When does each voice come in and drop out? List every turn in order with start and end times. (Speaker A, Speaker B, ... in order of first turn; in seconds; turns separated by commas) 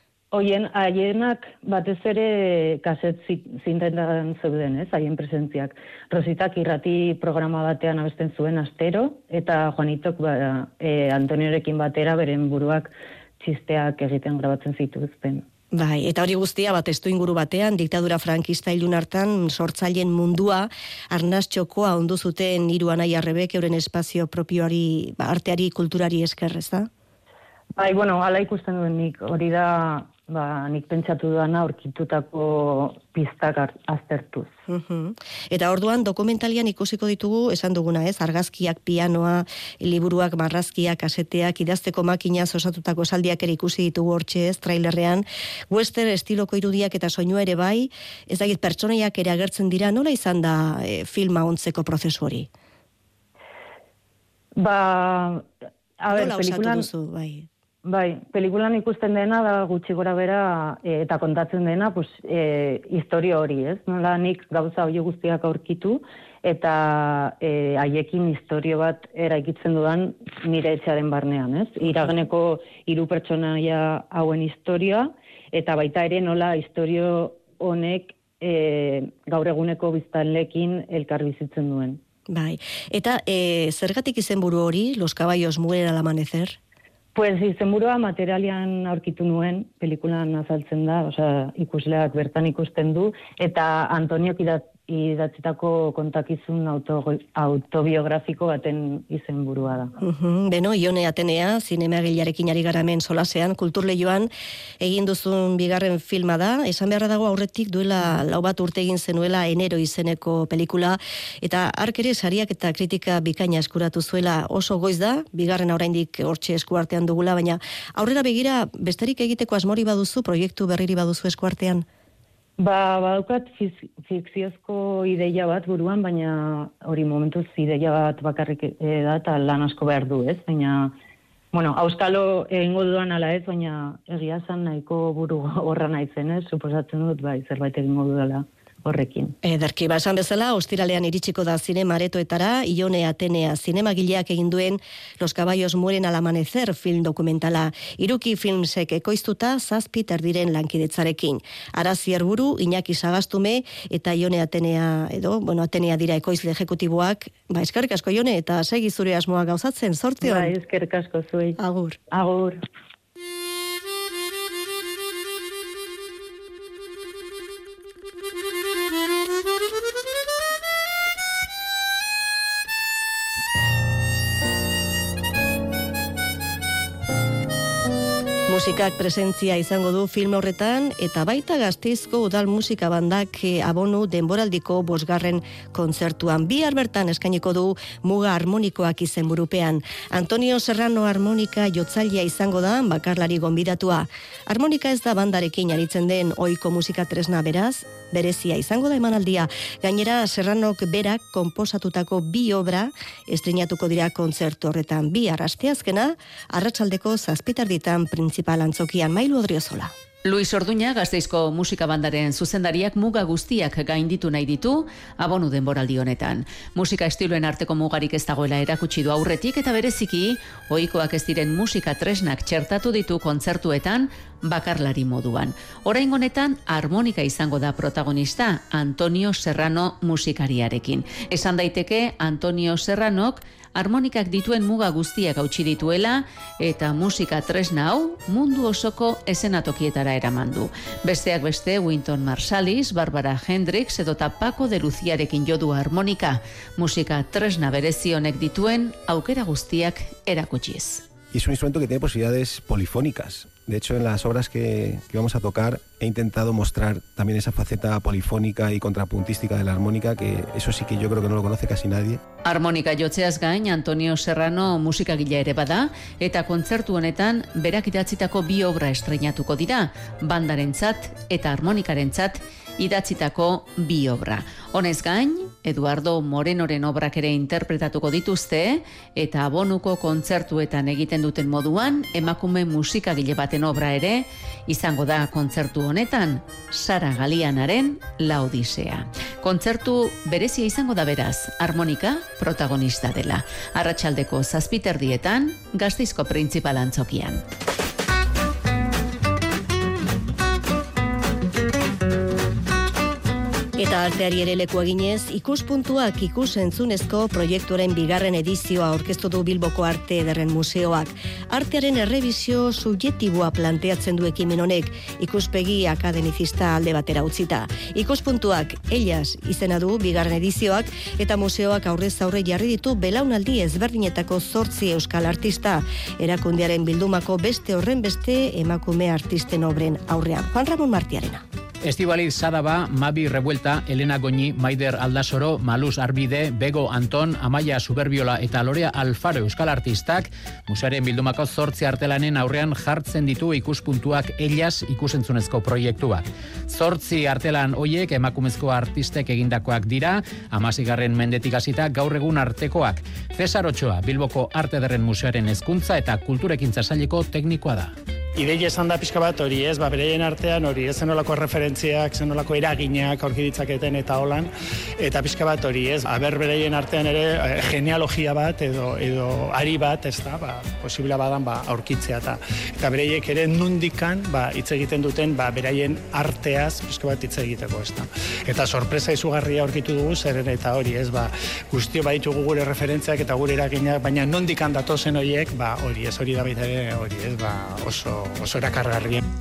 Speaker A: 0.3-15.4, Speaker B: 15.7-26.9, Speaker A: 27.8-34.5, Speaker B: 34.7-52.5, Speaker A: 54.6-55.5, Speaker A: 56.0-56.9, Speaker B: 56.1-57.5, Speaker A: 57.9-82.0, Speaker B: 82.3-86.6, Speaker A: 87.1-99.9, Speaker B: 100.0-121.9, Speaker A: 122.6-130.9, Speaker A: 131.5-139.4, Speaker B: 139.4-160.5, Speaker A: 160.2-161.6, Speaker B: 161.6-162.0, Speaker A: 162.1-162.6, Speaker B: 178.5-209.9, Speaker C: 210.2-251.1, Speaker D: 251.3-262.2, Speaker C: 262.4-297.4, Speaker B: 303.8-331.4, Speaker E: 331.8-357.9, Speaker F: 358.4-389.2